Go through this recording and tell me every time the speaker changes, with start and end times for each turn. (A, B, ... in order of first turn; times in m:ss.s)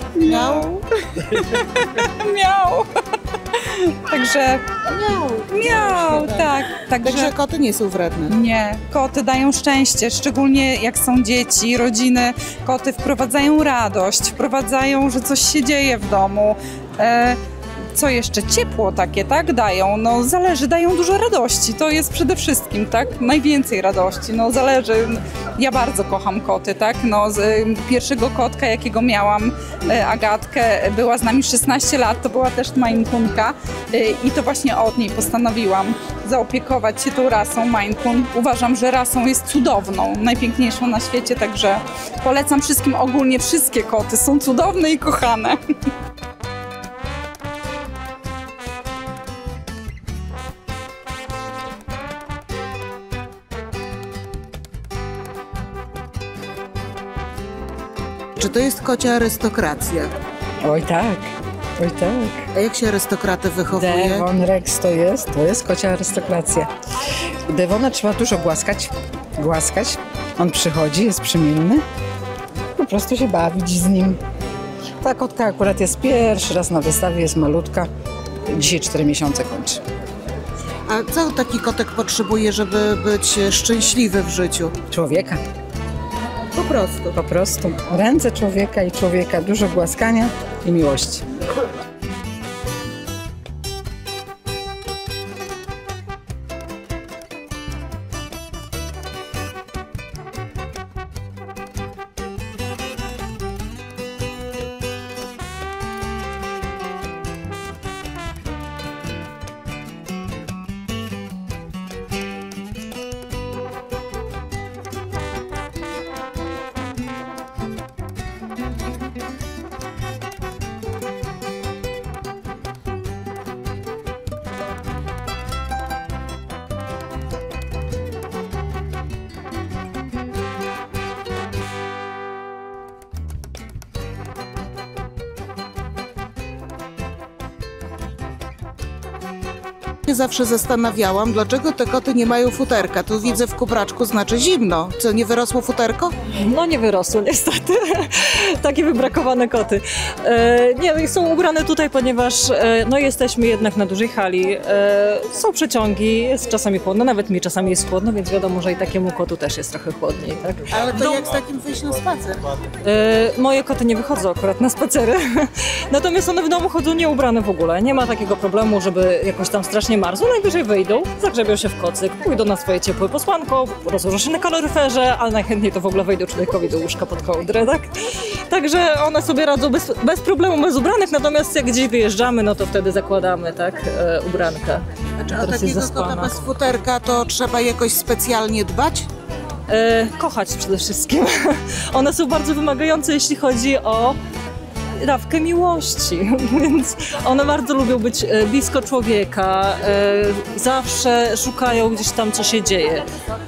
0:00.2-0:02.8 A
0:00.3-0:00.7 B
0:03.6-0:04.6 A
0:04.9-0:06.5 B
0:05.5-0:07.3 A
0:07.0-0:08.3 B
0:08.3-0:17.4 A
0:18.0-0:45.6 A
0:58.4-1:00.1 B
1:00.6-1:02.5 C
1:02.5-1:04.3 B
1:03.7-1:06.7 C
1:07.5-1:11.8 C
1:12.8-1:14.2 C
1:15.0-1:17.9 C
1:18.5-1:19.8 C
1:20.9-1:24.8 B
1:24.9-1:25.4 C
1:26.6-1:27.1 B
1:27.1-1:31.2 C
2:20.1-2:26.1 B
2:26.3-2:40.7 D
2:40.7-2:42.4 B
2:42.8-2:57.9 D
2:58.5-3:06.3 D
3:05.2-3:09.1 B
3:09.7-3:14.2 D
3:15.0-3:23.0 D